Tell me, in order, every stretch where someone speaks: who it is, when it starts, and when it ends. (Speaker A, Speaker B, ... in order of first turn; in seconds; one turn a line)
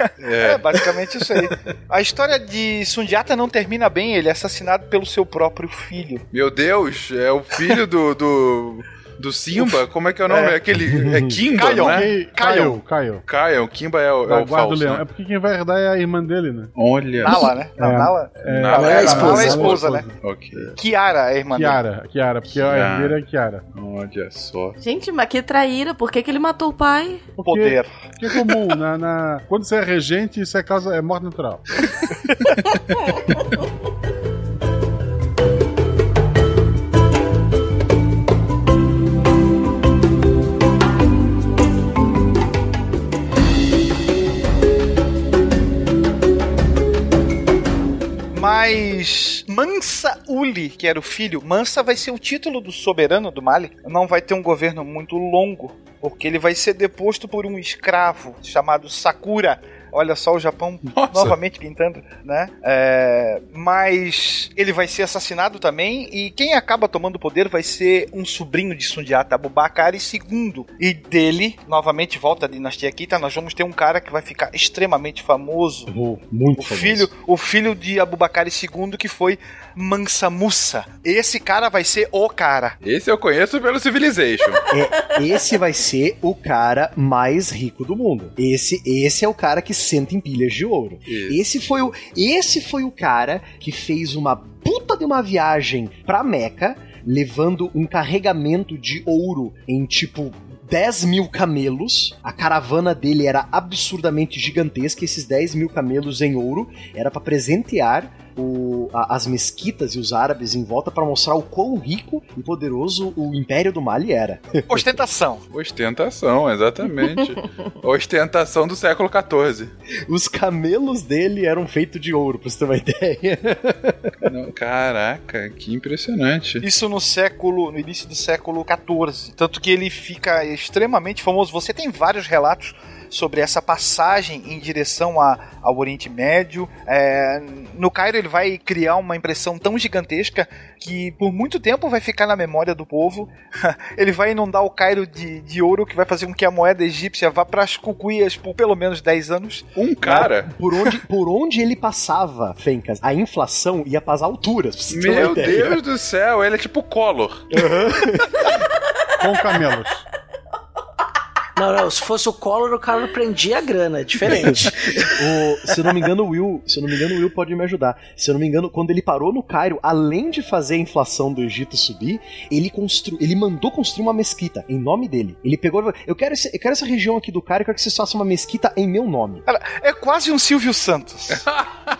Speaker A: 0.2-0.8
Speaker B: 0.4-6.2
Speaker A: 6.3-12.1
Speaker B: 9.6-10.6
Speaker C: 10.9-11.4
Speaker B: 11.5-12.8
Speaker D: 11.9-13.2
Speaker A: 13.3-15.0
Speaker D: 14.2-16.7
Speaker A: 16.8-17.5
Speaker B: 17.2-20.1
Speaker D: 17.3-20.1
Speaker A: 18.5-20.7
Speaker E: 18.8-19.7
Speaker B: 20.7-21.8
Speaker D: 21.5-23.6
Speaker A: 22.6-23.2
Speaker A: 23.7-24.8
Speaker F: 24.8-27.2
Speaker D: 27.4-31.8
Speaker B: 27.4-28.0
Speaker B: 48.3-75.9
Speaker A: 60.9-61.4
Speaker C: 75.9-77.1
Speaker B: 76.6-82.8
Speaker A: 82.8-84.6
Speaker C: 84.7-115.0
Speaker A: 91.1-91.4
Speaker B: 114.7-115.4
Speaker A: 115.5-119.7
Speaker C: 120.1-124.1
Speaker A: 124.2-126.6
Speaker B: 126.6-150.3
Speaker A: 149.7-150.5
Speaker C: 150.4-155.8
Speaker A: 154.9-157.5
Speaker C: 157.5-158.4
Speaker D: 159.2-160.0
Speaker E: 161.6-165.2
Speaker C: 164.5-179.4
Speaker B: 179.4-181.4